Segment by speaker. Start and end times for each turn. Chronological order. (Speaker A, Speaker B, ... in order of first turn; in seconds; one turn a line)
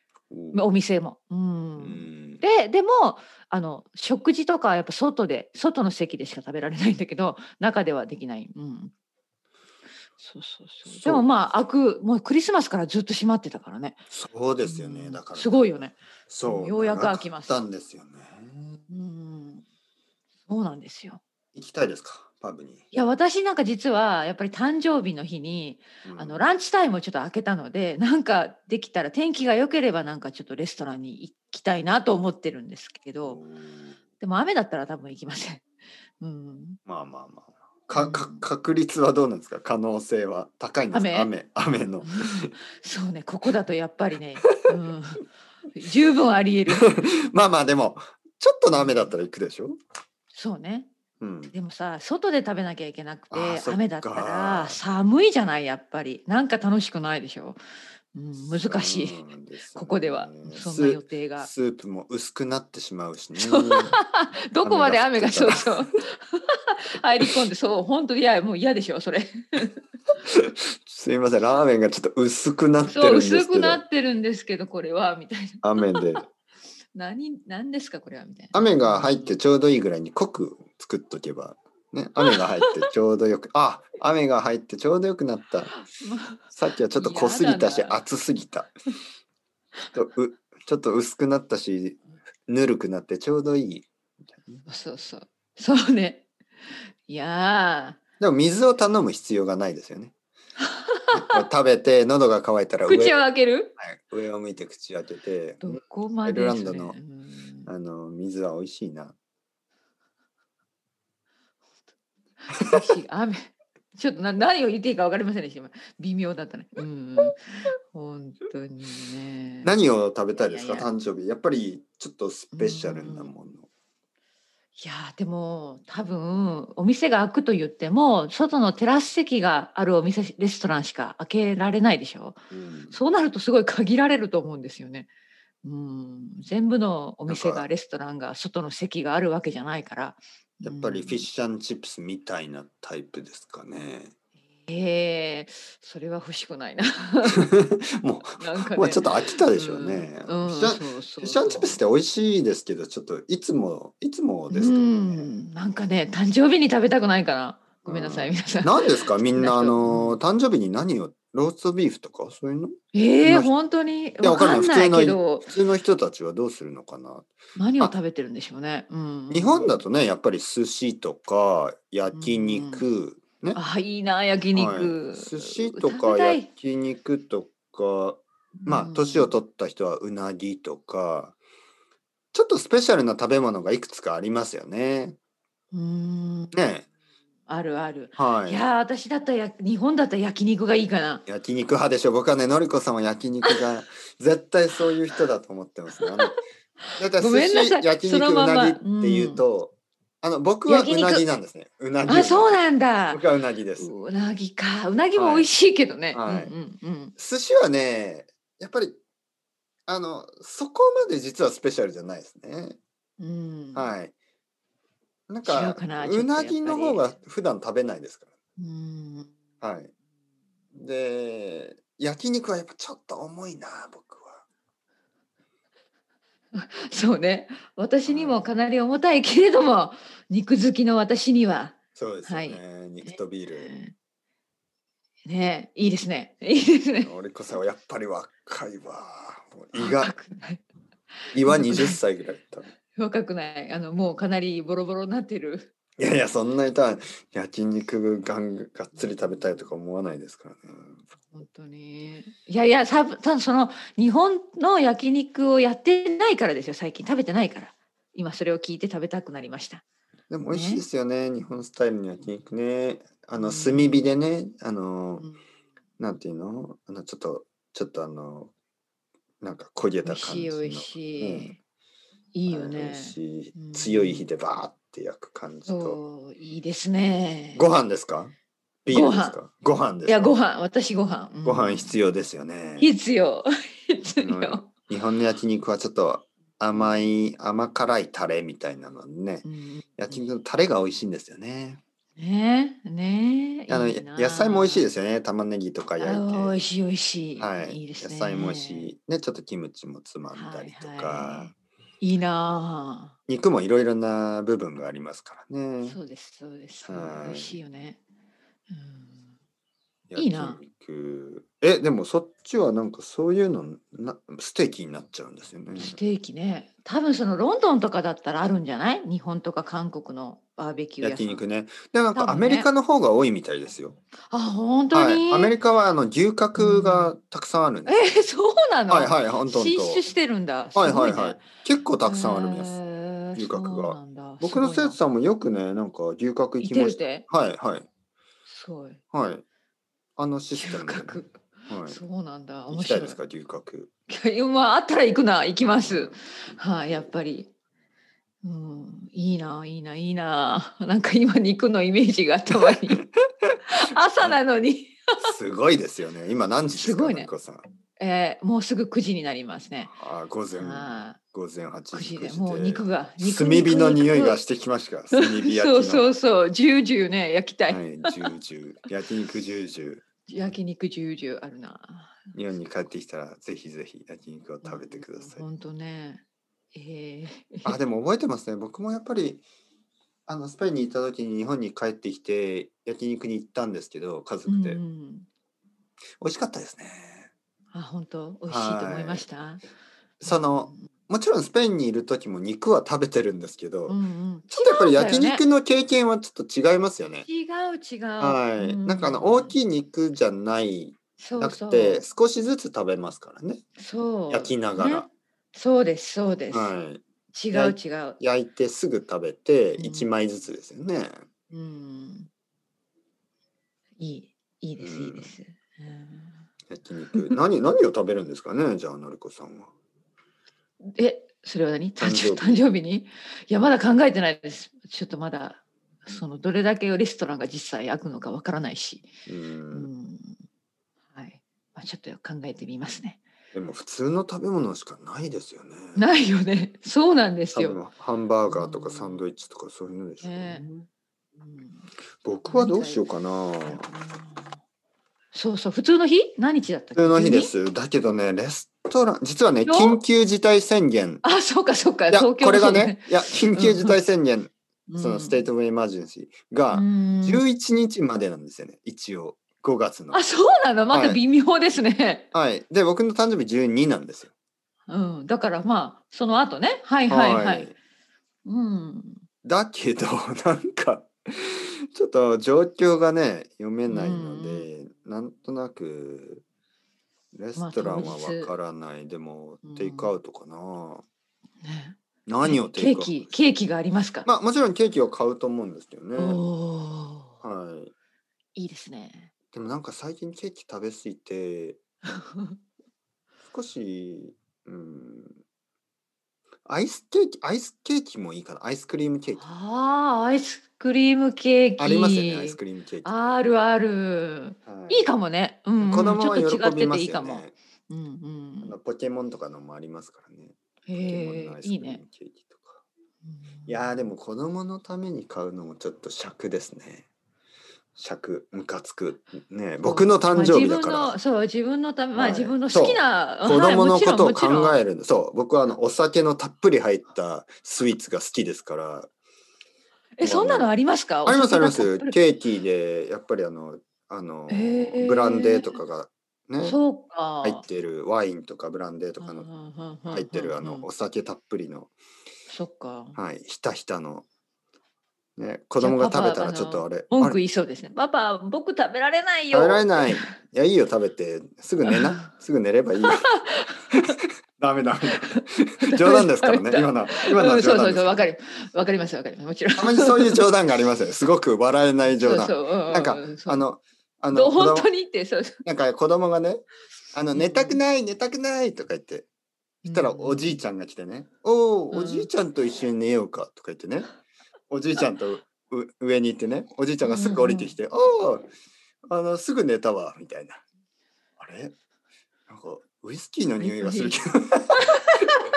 Speaker A: 0.3-0.6
Speaker B: 0.5-8.9
Speaker A: 1.8-2.4
Speaker B: 10.2-14.0
Speaker A: 10.9-11.3
Speaker A: 14.1-18.8
Speaker B: 14.6-17.6
Speaker B: 18.9-19.6
Speaker B: 20.5-21.2
Speaker A: 21.6-22.8
Speaker B: 22.9-33.4
Speaker A: 26.1-26.4
Speaker A: 33.2-34.0
Speaker B: 34.2-35.6
Speaker B: 36.2-36.8
Speaker A: 36.9-42.5
Speaker B: 38.0-38.4
Speaker B: 40.9-41.3
Speaker B: 42.0-47.1
Speaker A: 44.4-44.7
Speaker A: 46.7-49.8
Speaker B: 48.7-49.1
Speaker B: 50.3-50.9
Speaker A: 51.2-51.5
Speaker B: 51.5-57.6
Speaker A: 53.3-54.8
Speaker B: 58.1-59.2
Speaker A: 58.4-64.0
Speaker B: 59.7-61.5
Speaker B: 63.4-69.8
Speaker A: 64.6-65.9
Speaker A: 70.2-73.8
Speaker B: 72.8-76.2
Speaker A: 75.6-76.2
Speaker B: 76.9-79.4
Speaker A: 78.5-85.8
Speaker B: 85.7-88.0
Speaker A: 86.5-88.7
Speaker A: 89.9-94.7
Speaker B: 94.7-96.2
Speaker B: 97.0-98.0
Speaker A: 98.2-100.1
Speaker B: 100.6-101.4
Speaker A: 101.1-103.2
Speaker B: 102.9-103.7
Speaker A: 103.8-107.0
Speaker B: 105.6-107.7
Speaker A: 107.7-109.2
Speaker B: 112.4-119.7
Speaker A: 119.6-123.7
Speaker B: 120.3-120.9
Speaker B: 122.5-123.3
Speaker B: 124.8-132.4
Speaker A: 132.5-133.0
Speaker B: 132.9-135.1
Speaker B: 135.6-141.3
Speaker A: 137.3-137.7
Speaker A: 140.6-144.1
Speaker B: 144.7-147.5
Speaker A: 147.3-155.3
Speaker B: 148.3-151.8
Speaker B: 154.5-160.2
Speaker A: 157.8-163.5
Speaker B: 162.9-165.5
Speaker A: 164.2-167.9
Speaker B: 167.6-169.8
Speaker A: 169.3-173.6
Speaker B: 172.1-172.8
Speaker B: 173.6-176.5
Speaker A: 174.5-181.3
Speaker B: 178.6-179.4
Speaker A: 182.3-185.2
Speaker B: 185.7-186.7
Speaker A: 186.5-186.8
Speaker B: 187.5-191.2
Speaker A: 188.2-188.7
Speaker A: 191.2-196.4
Speaker B: 196.0-196.4
Speaker A: 197.0-203.9
Speaker B: 197.2-199.4
Speaker B: 200.7-201.2
Speaker B: 202.1-203.2
Speaker B: 203.8-207.1
Speaker A: 205.2-205.5
Speaker A: 206.1-206.5
Speaker A: 207.2-209.0
Speaker A: 209.9-212.8
Speaker B: 213.2-213.9
Speaker A: 213.7-214.1
Speaker A: 215.3-218.3
Speaker B: 215.4-217.1
Speaker B: 218.6-219.3
Speaker A: 219.6-219.9
Speaker A: 220.7-224.4
Speaker B: 226.5-233.9
Speaker A: 228.0-228.4
Speaker A: 232.0-233.7
Speaker B: 235.2-237.1
Speaker A: 237.0-240.1
Speaker B: 239.8-240.6
Speaker A: 241.3-242.7
Speaker B: 241.4-242.0
Speaker B: 243.0-245.7
Speaker A: 246.0-251.0
Speaker B: 251.3-259.8
Speaker A: 260.3-265.3
Speaker B: 260.4-260.8
Speaker B: 263.4-264.1
Speaker A: 266.0-268.5
Speaker A: 269.4-271.5
Speaker B: 270.0-271.6
Speaker B: 272.3-274.3
Speaker A: 272.5-276.0
Speaker B: 275.7-277.6
Speaker A: 277.6-278.3
Speaker A: 278.8-280.3
Speaker B: 278.9-279.4
Speaker B: 280.1-282.0
Speaker A: 281.4-282.9
Speaker B: 282.8-284.7
Speaker A: 284.2-289.4
Speaker B: 286.7-287.0
Speaker B: 289.4-290.3
Speaker A: 290.0-291.8
Speaker B: 292.1-294.9
Speaker A: 293.7-296.6
Speaker B: 296.0-298.9
Speaker A: 297.4-301.5
Speaker B: 300.3-303.1
Speaker A: 303.3-306.0
Speaker B: 305.8-308.0
Speaker A: 306.8-307.6
Speaker B: 308.7-309.3
Speaker A: 310.1-316.0
Speaker B: 310.1-310.6
Speaker B: 315.7-321.4
Speaker A: 321.0-324.0
Speaker B: 322.1-322.7
Speaker B: 324.3-325.5
Speaker A: 324.9-328.1
Speaker B: 326.6-327.1
Speaker B: 327.9-331.4
Speaker A: 328.9-330.0
Speaker A: 330.8-332.8
Speaker B: 332.0-335.0
Speaker A: 333.4-337.9
Speaker B: 336.6-337.2
Speaker B: 338.5-339.0
Speaker A: 339.1-339.4
Speaker A: 340.2-342.0
Speaker B: 340.5-343.2
Speaker A: 342.7-343.9
Speaker B: 344.1-347.5
Speaker A: 345.7-347.1
Speaker B: 348.4-353.0
Speaker A: 352.6-353.1
Speaker B: 353.7-355.3
Speaker A: 354.1-354.4
Speaker A: 355.2-357.6
Speaker B: 356.7-357.3
Speaker B: 358.0-359.9
Speaker A: 359.9-366.1
Speaker B: 360.5-361.2
Speaker B: 361.9-364.4
Speaker B: 365.1-368.1
Speaker A: 367.7-370.0
Speaker B: 370.3-372.3
Speaker A: 372.3-375.4
Speaker B: 374.6-376.2
Speaker B: 376.7-377.8
Speaker A: 377.6-379.4
Speaker A: 380.3-384.8
Speaker B: 384.5-385.3
Speaker A: 386.2-387.3
Speaker B: 387.7-389.6
Speaker A: 388.5-389.2
Speaker A: 390.2-397.3
Speaker B: 390.2-390.9
Speaker B: 393.9-395.4
Speaker B: 397.2-399.6
Speaker A: 398.2-403.6
Speaker B: 401.2-402.0
Speaker B: 403.8-406.8
Speaker A: 404.3-405.1
Speaker A: 406.5-411.1
Speaker B: 407.3-408.2
Speaker B: 409.8-410.1
Speaker B: 411.5-412.3
Speaker B: 414.0-416.4
Speaker A: 414.8-415.3
Speaker A: 416.7-419.7
Speaker B: 420.8-429.1
Speaker A: 422.0-422.6
Speaker A: 429.3-429.9
Speaker B: 429.7-430.4
Speaker B: 431.1-433.2
Speaker A: 433.5-436.1
Speaker B: 435.9-437.8
Speaker A: 437.5-440.8
Speaker B: 438.4-439.2
Speaker B: 440.2-440.6
Speaker B: 441.4-441.9
Speaker A: 442.2-443.9
Speaker B: 442.4-443.0
Speaker B: 443.6-444.6
Speaker B: 445.3-447.5
Speaker A: 446.9-451.2
Speaker B: 449.6-450.0
Speaker B: 451.2-454.0
Speaker A: 452.1-460.2
Speaker B: 454.9-455.5
Speaker B: 456.7-457.4
Speaker B: 460.1-462.3
Speaker A: 460.9-461.2
Speaker A: 462.3-464.3
Speaker B: 464.9-467.7
Speaker A: 467.1-467.8
Speaker B: 468.4-469.2
Speaker A: 469.4-476.4
Speaker B: 473.9-474.7
Speaker A: 477.3-481.0
Speaker B: 477.6-478.5
Speaker B: 479.6-480.1
Speaker B: 481.6-484.3
Speaker A: 482.2-483.3
Speaker A: 484.2-486.4
Speaker B: 486.2-487.4
Speaker A: 487.4-487.9
Speaker B: 488.6-489.3
Speaker A: 489.5-491.8
Speaker B: 492.1-492.6
Speaker A: 493.5-495.4
Speaker A: 496.7-499.4
Speaker B: 499.4-508.8
Speaker A: 501.8-503.1
Speaker A: 504.7-505.1
Speaker A: 505.8-507.5
Speaker A: 508.6-512.8
Speaker B: 510.9-512.0
Speaker B: 513.2-514.1
Speaker A: 513.7-517.1
Speaker A: 518.0-521.2
Speaker B: 519.8-524.8
Speaker A: 522.1-529.1
Speaker B: 530.2-532.2
Speaker A: 530.2-530.7
Speaker A: 531.2-536.8
Speaker B: 534.5-535.8
Speaker B: 536.6-537.6
Speaker A: 537.4-539.5
Speaker B: 539.2-540.9
Speaker A: 540.1-541.9
Speaker B: 542.5-543.2
Speaker A: 543.2-544.2
Speaker A: 545.4-547.4
Speaker B: 545.8-550.3
Speaker A: 549.5-553.3
Speaker B: 551.9-552.3
Speaker B: 553.1-554.1
Speaker A: 553.9-558.3
Speaker B: 555.1-560.4
Speaker A: 559.8-564.9
Speaker B: 562.1-563.6
Speaker B: 564.3-565.6
Speaker A: 565.6-569.3
Speaker B: 567.3-567.8
Speaker B: 569.9-570.6
Speaker A: 569.9-574.1
Speaker B: 571.9-572.3
Speaker A: 574.7-578.5
Speaker B: 577.0-577.8
Speaker A: 579.1-580.6
Speaker A: 581.4-581.7
Speaker A: 582.5-585.2
Speaker B: 583.6-584.2
Speaker B: 584.8-585.1